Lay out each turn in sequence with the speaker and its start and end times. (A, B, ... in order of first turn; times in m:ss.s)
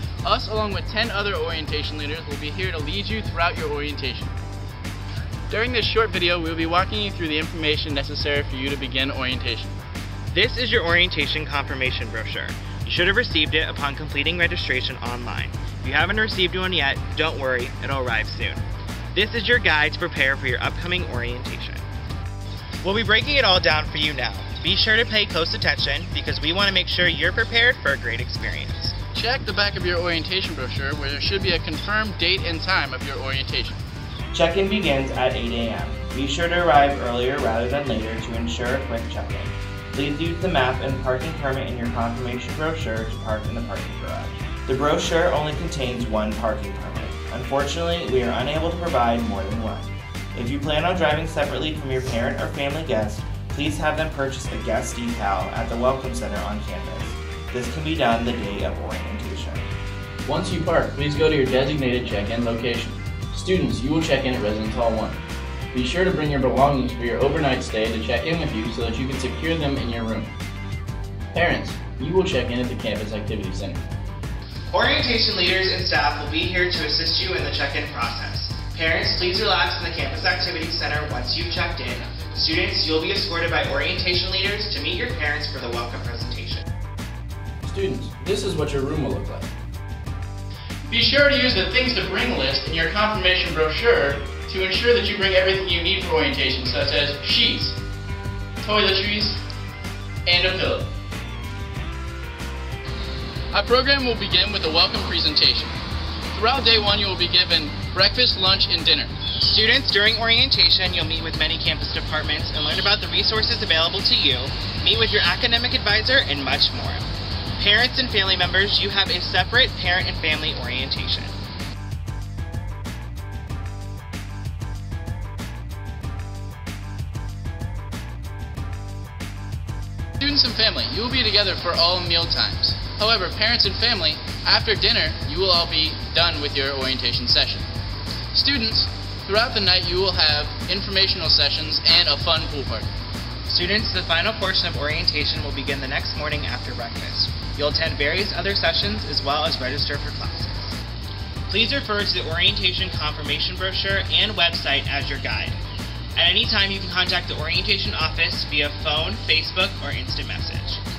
0:00.2-0:04.3 A
0:05.5-0:09.7 A
0:10.3-0:18.6 B
0:19.1-0:21.8 B
0:22.8-0:29.0 B
0:29.1-0:33.8 A
0:32.2-0:32.5 C
0:34.3-0:59.6 B
1:00.3-1:05.1 C
1:00.3-1:01.0 A
1:01.7-1:03.4 A
1:05.7-1:10.2 C
1:11.3-1:13.7 A
1:11.4-1:13.7 C
1:14.7-1:26.6 B
1:27.6-1:29.4 A
1:30.9-1:37.6 A
1:31.4-1:31.9 C
1:35.8-1:37.6 C
1:38.6-1:39.1 C
1:38.8-1:39.4 A
1:40.3-1:40.8 A
1:43.5-1:45.7 A
1:46.3-1:49.1 A
1:49.4-1:57.0 B
1:57.6-2:01.3 B
2:10.2-2:17.6 A
2:12.6-2:12.9 C
2:18.3-2:18.6 A
2:18.5-2:19.6 C
2:19.3-2:22.8 A
2:20.4-2:22.8 C
2:23.5-2:30.7 B
2:31.5-2:35.6 B
2:36.2-2:40.8 B